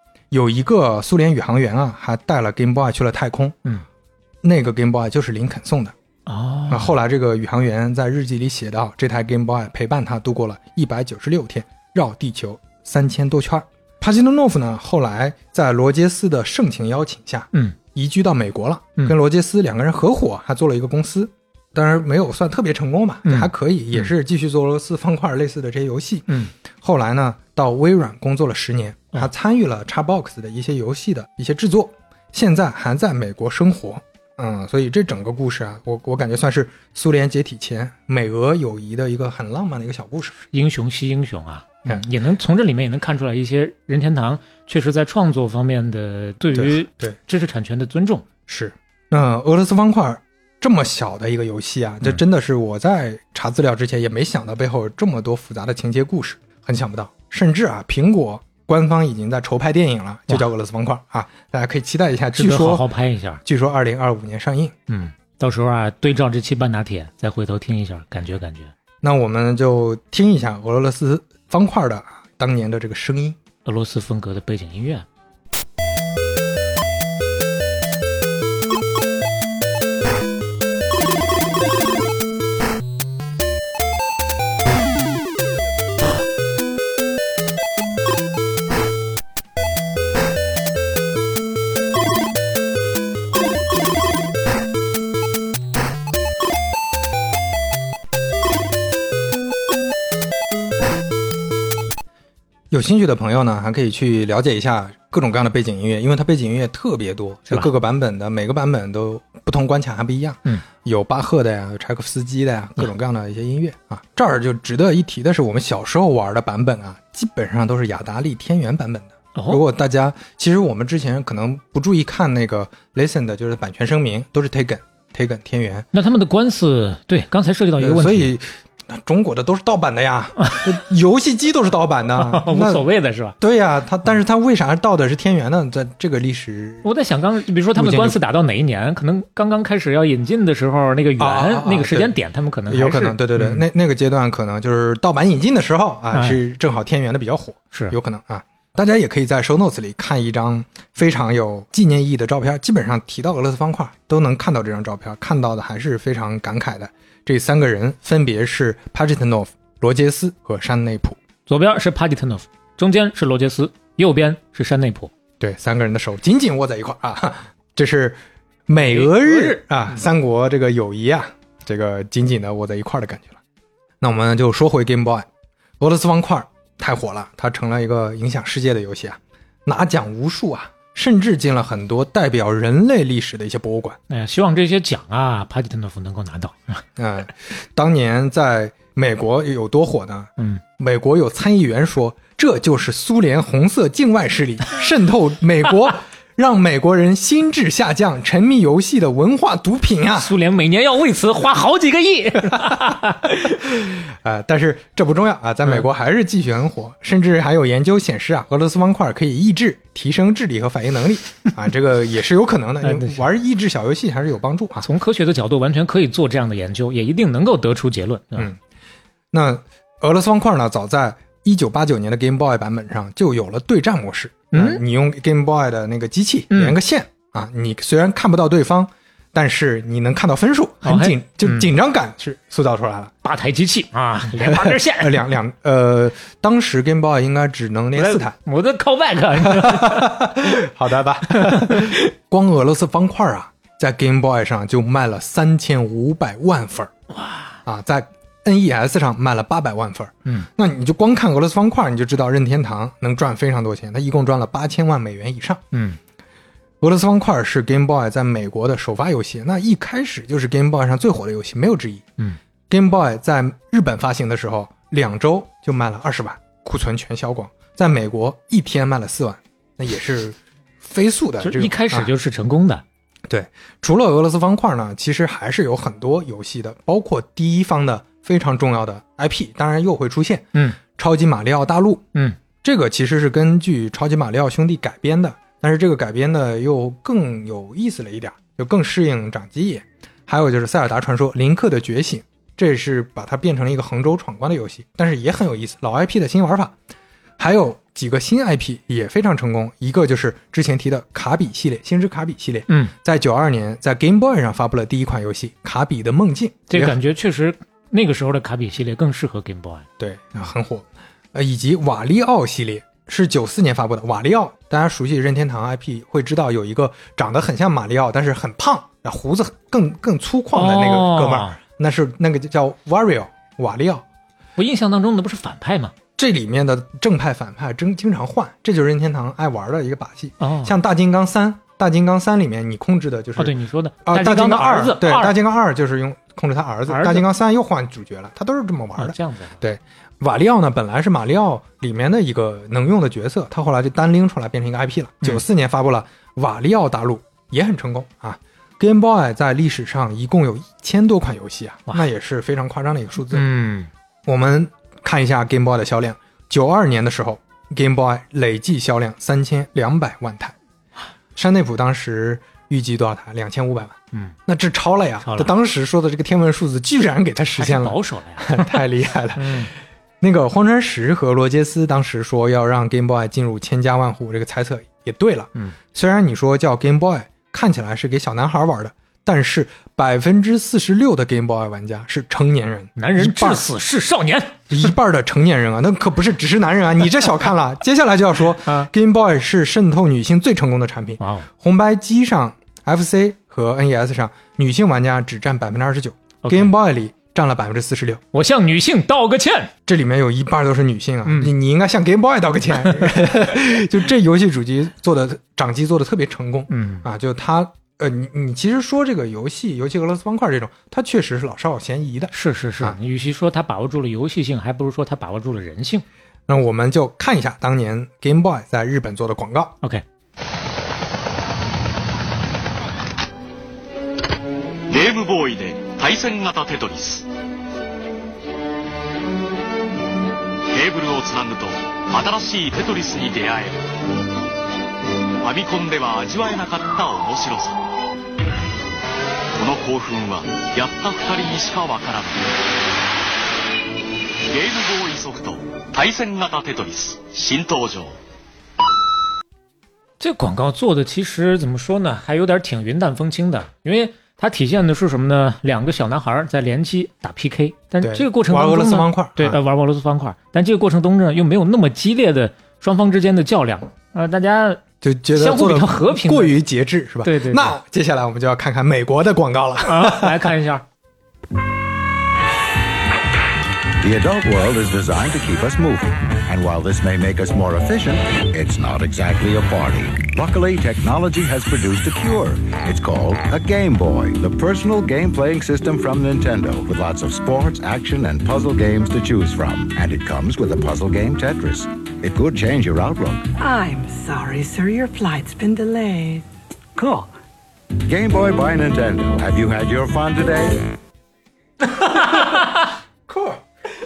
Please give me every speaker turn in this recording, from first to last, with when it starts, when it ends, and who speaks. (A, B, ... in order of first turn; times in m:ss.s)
0:00.3-0:03.6 A
0:04.4-0:06.0 A
0:06.3-0:06.9 B
0:06.7-0:40.4 A
0:23.2-0:24.1 B
0:40.5-0:48.3 B
0:46.6-0:47.2 A
0:48.5-1:02.9 A
1:02.4-1:03.4 B
1:03.4-1:04.7 A
1:04.9-1:08.7 B
1:09.0-1:13.4 A
1:13.6-1:15.1 B
1:42.7-2:05.9 A
1:59.4-1:59.6 B
2:05.9-2:08.3 B
2:07.8-2:12.9 A
2:12.2-2:13.4 B
2:13.4-2:16.8 A
2:16.8-2:23.6 B
2:17.7-2:18.2 A
2:21.2-2:22.1 A
2:22.7-2:41.2 A
2:41.5-2:45.1 B
2:45.4-2:53.4 A
2:48.8-2:49.6 B
2:54.0-2:55.3 A
2:55.8-3:04.0 A
3:04.1-3:06.8 B
3:07.0-3:20.3 A
3:20.2-3:23.6 B
3:23.5-3:34.9 A
3:32.8-3:33.2 B
3:34.8-3:38.5 B
3:39.3-3:53.1 A
3:44.5-3:44.8 B
3:46.5-3:46.8 B
3:50.8-3:51.7 B
3:53.2-3:55.2 B
3:54.4-3:58.4 A
3:58.0-4:00.4 B
3:59.4-4:06.9 A
4:01.3-4:02.0 B
4:07.1-4:07.6 B
4:07.6-4:15.6 A
4:15.7-4:16.0 B
4:16.8-4:22.1 A
4:22.7-4:32.1 A
4:31.4-4:32.8 B
4:33.3-4:42.0 A
4:42.6-4:56.7 A
4:57.4-5:07.0 A
5:06.7-5:09.9 B
5:10.0-5:24.0 A
5:20.5-5:21.6 B
5:24.6-5:25.9 B
5:26.2-5:53.5 A
5:30.4-5:30.7 B
5:33.4-5:35.4 B
5:36.9-5:37.3 B
5:39.0-5:39.6 B
5:53.3-5:53.9 B
5:54.3-6:00.6 A
6:01.4-6:09.7 A
6:05.2-6:05.5 B
6:07.6-6:08.8 B
6:09.4-6:09.7 B
6:10.2-6:23.6 A
6:23.0-6:24.9 B
6:24.7-6:38.2 A
6:28.6-6:28.9 B
6:31.2-6:31.5 B
6:36.4-6:36.7 B
6:38.3-6:39.7 B
6:39.9-6:53.0 A
6:41.2-6:41.5 B
6:46.7-6:47.1 B
6:52.3-6:56.0 B
6:56.5-6:59.8 A
7:04.9-7:07.2 C
7:10.7-7:13.8 C
7:15.4-7:17.8 C
7:19.6-7:22.5 C
7:24.5-7:28.2 C
7:30.2-7:44.8 B
7:38.0-7:39.6 A
7:45.0-7:50.4 A
7:45.3-7:46.6 B
7:47.2-7:47.7 B
7:49.8-7:50.8 B
7:54.0-8:13.5 D
8:13.6-8:16.4 E
8:18.0-8:20.9 D
8:21.9-8:22.9 B
8:23.3-8:23.6 A